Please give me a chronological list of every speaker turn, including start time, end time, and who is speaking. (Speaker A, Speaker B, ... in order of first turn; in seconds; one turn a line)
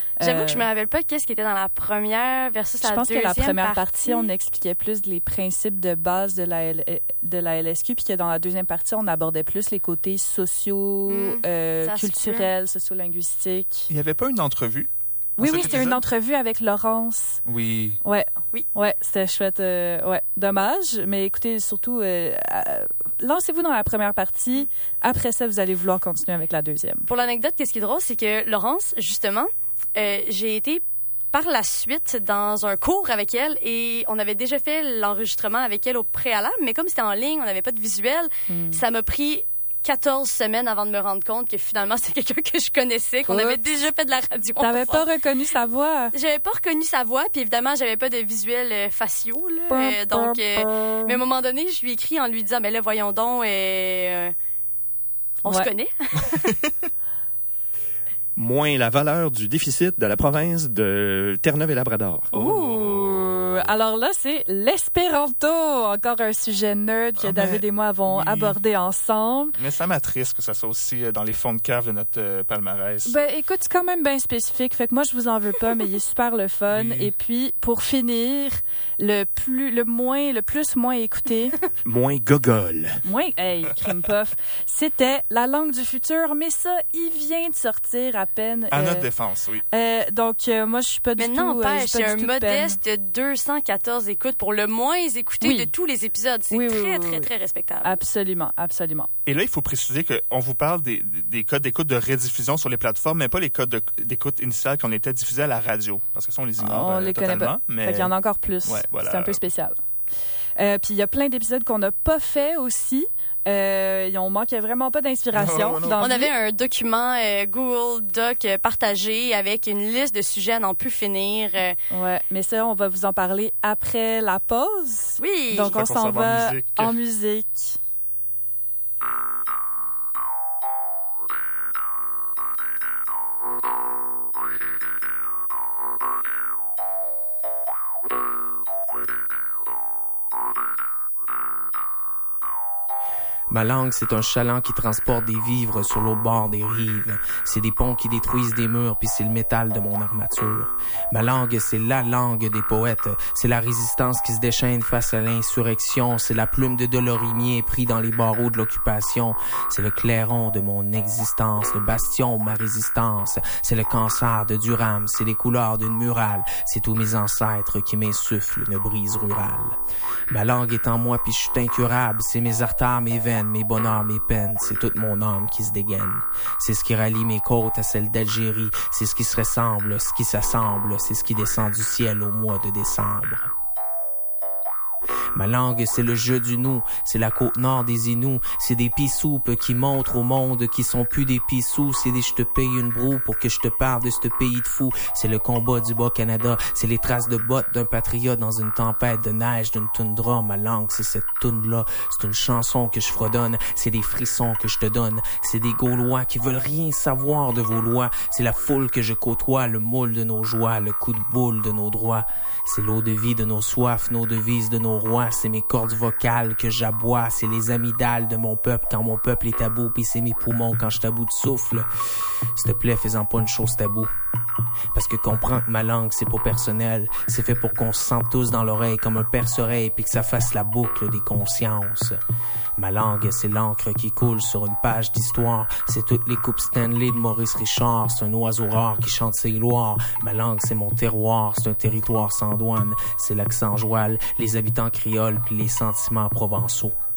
Speaker A: 0.2-0.7
Speaker B: 0.2-4.3
Speaker A: 2.8-13.9
Speaker B: 11.1-12.5
Speaker C: 13.9-16.0
Speaker A: 15.4-17.4
Speaker C: 17.4-18.0
Speaker A: 18.0-27.1
Speaker B: 27.1-45.0
Speaker A: 38.5-38.8
Speaker A: 43.3-43.6
Speaker A: 44.6-46.1
Speaker B: 46.1-54.3
Speaker A: 49.7-51.2
Speaker B: 55.5-56.4
Speaker D: 58.4-62.3
Speaker C: 62.3-63.3
Speaker A: 62.3-69.6
Speaker C: 67.2-68.6
Speaker C: 69.6-73.1
Speaker A: 73.0-81.6
Speaker C: 76.7-77.1
Speaker D: 81.8-83.0
Speaker A: 83.0-89.1
Speaker C: 88.7-89.7
Speaker A: 89.7-92.8
Speaker B: 91.2-98.0
Speaker A: 95.4-95.7
Speaker A: 96.5-97.3
Speaker A: 97.8-99.1
Speaker C: 99.3-108.1
Speaker A: 106.6-109.8
Speaker C: 108.7-109.4
Speaker A: 110.6-116.3
Speaker C: 115.3-116.1
Speaker B: 116.0-121.8
Speaker A: 121.9-127.8
Speaker B: 125.2-125.7
Speaker C: 125.7-127.0
Speaker E: 143.5-169.8
Speaker E: 170.3-183.5
Speaker E: 185.3-221.9
Speaker E: 222.6-224.1
Speaker E: 224.9-232.2
Speaker E: 232.8-246.9